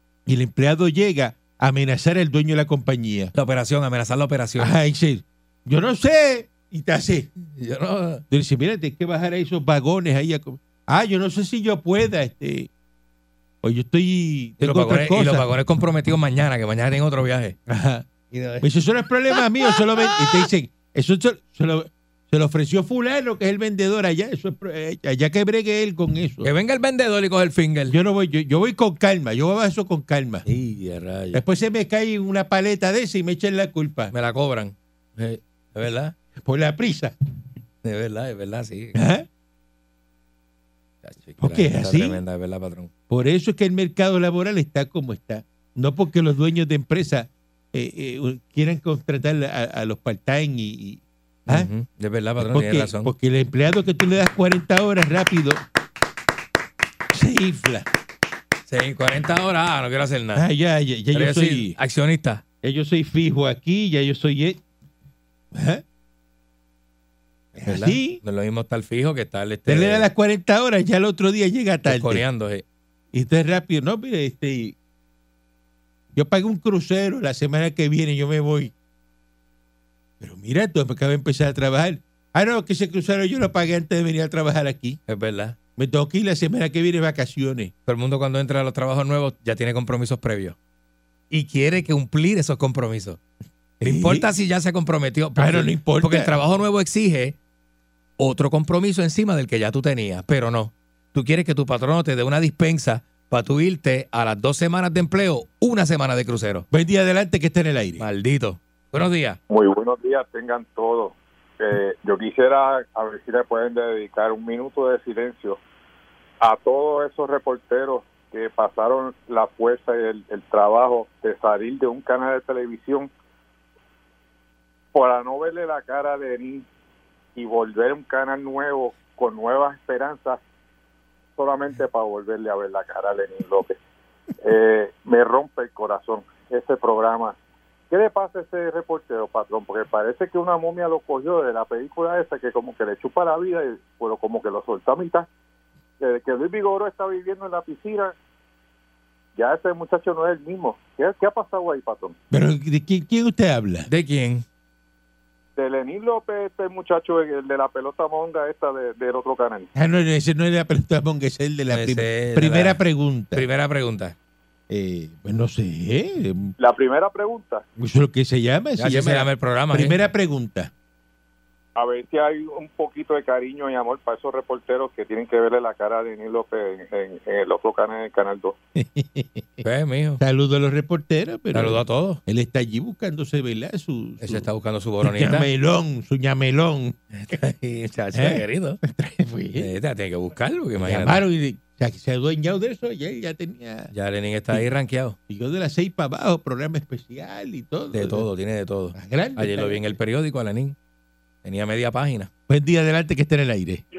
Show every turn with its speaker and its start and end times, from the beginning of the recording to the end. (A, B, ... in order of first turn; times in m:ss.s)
0:00.3-0:03.3 A
0:03.3-0:04.7 B
0:04.6-0:07.3 A
0:07.5-0:08.2 B
0:08.3-0:12.7 A
0:13.6-0:15.5 A
0:14.6-0:17.6 B
0:17.7-0:18.1 A
0:18.3-0:18.7 B
0:18.6-0:26.5 A
0:19.3-0:20.4 B
0:26.4-0:28.0 B
0:27.9-0:30.5 A
0:30.5-0:31.4 B
0:31.3-0:34.1 A
0:34.1-0:36.2 B
0:36.4-0:37.1 A
0:37.8-0:39.0 B
0:39.0-0:39.3 A
0:41.0-0:42.9 B
0:41.4-0:42.2 A
0:43.1-0:51.7 A
0:51.5-0:53.1 B
0:52.4-0:55.6 A
0:57.1-0:57.9 A
0:58.7-1:00.5 B
1:00.4-1:01.8 A
1:01.1-1:02.4 B
1:02.6-1:04.6 A
1:05.5-1:05.8 A
1:07.6-1:08.2 A
1:07.6-1:10.1 B
1:09.7-1:12.2 A
1:11.8-1:12.6 B
1:13.1-1:14.8 A
1:16.1-1:18.7 A
1:20.2-1:25.0 A
1:25.1-1:25.6 B
1:25.8-1:27.7 A
1:27.9-1:30.6 B
1:31.3-1:33.2 B
1:33.8-1:34.3 A
1:33.8-1:37.4 B
1:35.4-1:36.4 A
1:38.2-1:46.7 B
1:46.7-1:48.0 A
1:48.0-1:49.4 B
1:49.5-1:55.6 C
1:56.4-2:03.1 C
2:04.9-2:06.6 C
2:07.4-2:10.4 C
2:11.4-2:13.8 C
2:14.4-2:17.4 C
2:17.9-2:25.3 C
2:26.0-2:28.2 C
2:29.4-2:32.2 C
2:32.3-2:33.9 A
2:33.9-2:34.4 B
2:35.6-2:39.7 C
2:39.8-2:43.5 A
2:41.7-2:42.8 B
2:43.3-2:44.2 B
2:44.7-2:46.5 A
2:46.6-2:47.6 C
2:47.8-2:50.7 A
2:48.8-2:50.0 B
2:51.8-2:58.6 C
2:58.8-2:59.6 A
2:59.6-3:00.2 B
3:00.2-3:04.5 A
3:01.5-3:02.2 B
3:04.2-3:05.5 B
3:05.0-3:07.0 A
3:07.1-3:08.8 B
3:08.1-3:09.7 A
3:09.6-3:11.2 B
3:10.8-3:13.9 A
3:13.9-3:15.2 B
3:15.3-3:18.3 A
3:17.9-3:20.8 B
3:19.0-3:20.0 A
3:21.4-3:22.3 B
3:22.5-3:23.8 A